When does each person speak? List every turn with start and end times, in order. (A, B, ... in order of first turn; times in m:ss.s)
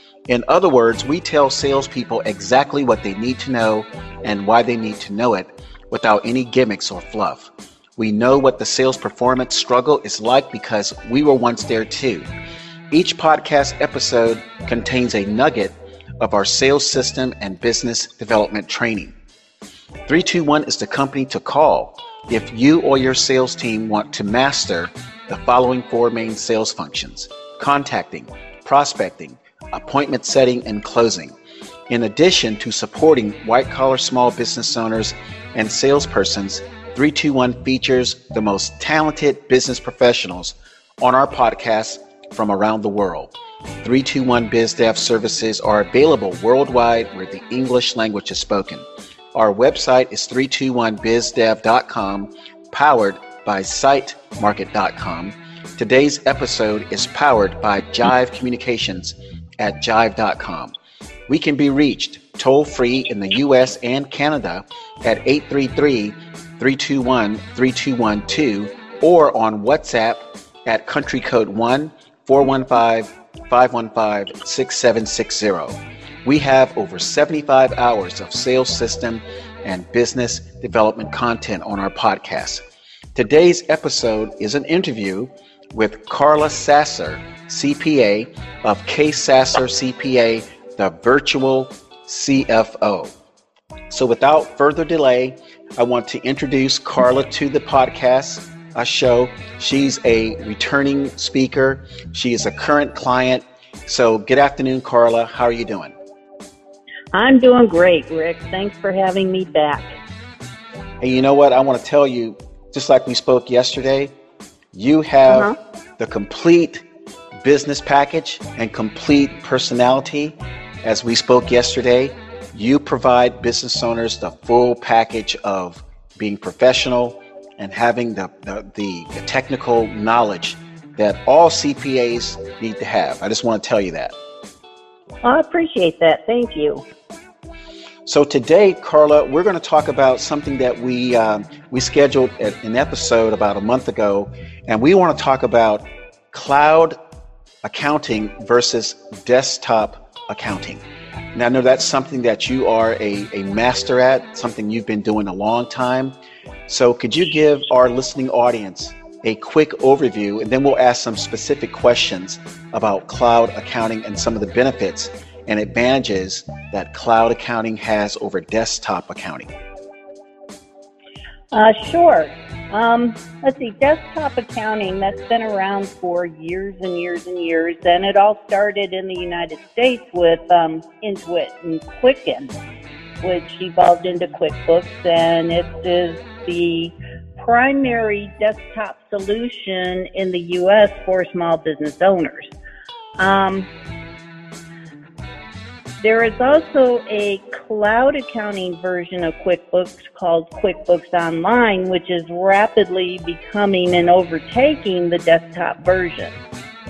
0:00.3-0:12.3 A
0:12.9-0:19.1 A
0:20.1-0:31.4 A
0:31.9-1:00.8 A
1:01.3-1:22.6 A
1:23.2-1:33.1 A
1:33.9-1:46.0 A
1:47.1-1:49.9 B
1:51.0-1:54.1 A
1:54.7-1:56.8 A
1:55.3-1:55.6 B
1:57.4-2:14.2 A
2:15.2-2:16.8 B
2:18.1-2:27.0 A
2:27.6-2:36.2 A
2:36.7-2:49.5 A
2:51.5-3:02.6 B
3:03.2-3:12.5 B
3:13.2-3:13.7 B
3:16.0-3:26.4 B